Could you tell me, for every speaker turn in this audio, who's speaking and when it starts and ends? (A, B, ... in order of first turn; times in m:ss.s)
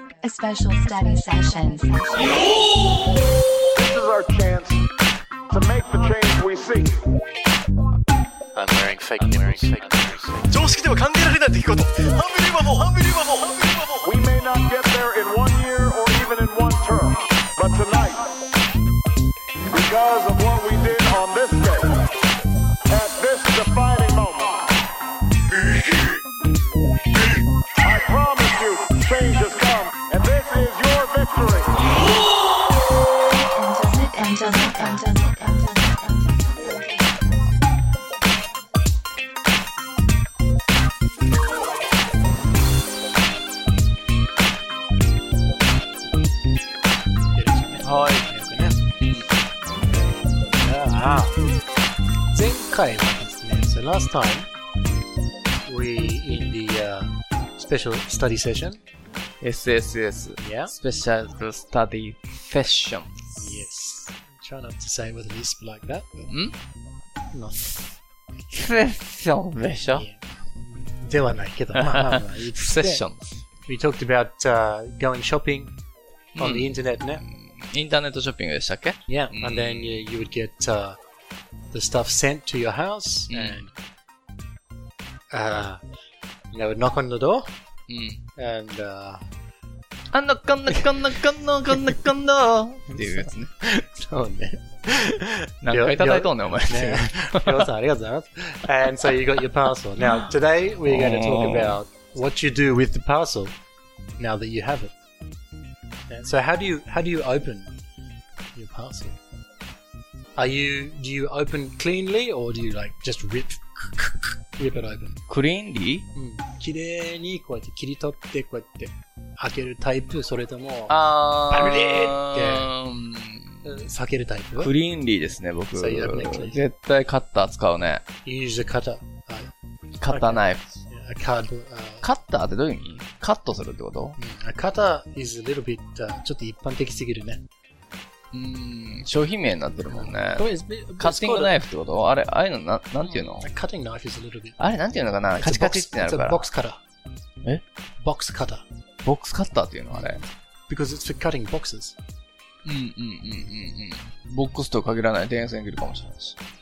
0:00.2-0:02.6 A
0:03.8-0:04.9 B
0:05.5-0:07.1 B
0:08.6-0:10.4 C
0:09.2-0:09.9 D
0:10.5-0:14.0 D
0:14.0-0:18.4 B
0:19.7-0:22.1 B
0:22.9-0:24.7 B
0:27.8-0:31.8 B
0:33.3-0:37.5 A
0:47.3-0:48.9 C
0:47.8-0:48.3 E
0:49.0-0:49.3 E
0:49.8-0:51.4 C
0:52.3-0:54.5 C
0:55.6-0:58.8 C
0:59.4-1:03.6 E
1:00.4-1:00.8 C
1:03.4-1:06.4 C
1:06.3-1:06.6 E
1:07.3-1:08.0 C
1:08.5-1:10.1 E
1:09.8-1:13.1 C
1:11.7-1:13.4 E
1:13.6-1:15.8 C
1:16.4-1:20.0 E
1:16.4-1:17.2 C
1:19.1-1:21.0 C
1:21.7-1:23.7 C
1:23.3-1:23.6 E
1:25.3-1:25.8 C
1:26.5-1:27.5 C
1:27.9-1:28.2 E
1:28.4-1:29.2 C
1:30.1-1:33.5 E
1:33.0-1:43.6 C
1:35.6-1:37.7 E
1:40.9-1:41.8 E
1:44.2-1:44.9 C
1:46.1-1:47.8 C
1:48.6-1:49.2 C
1:50.4-1:55.2 C
1:55.3-1:56.1 E
1:56.2-2:02.7 C
2:00.9-2:03.7 E
2:03.6-2:04.7 C
2:04.6-2:08.0 E
2:05.8-2:06.6 C
2:08.2-2:09.5 C
2:10.0-2:10.8 E
2:10.1-2:12.1 C
2:12.0-2:14.2 E
2:14.2-2:17.4 C
2:18.3-2:23.5 E
2:19.9-2:21.6 C
2:23.2-2:24.6 C
2:24.6-2:26.5 E
2:25.4-2:26.8 C
2:28.0-2:28.7 C
2:29.0-2:30.2 E
2:29.9-2:32.0 C
2:32.6-2:36.4 E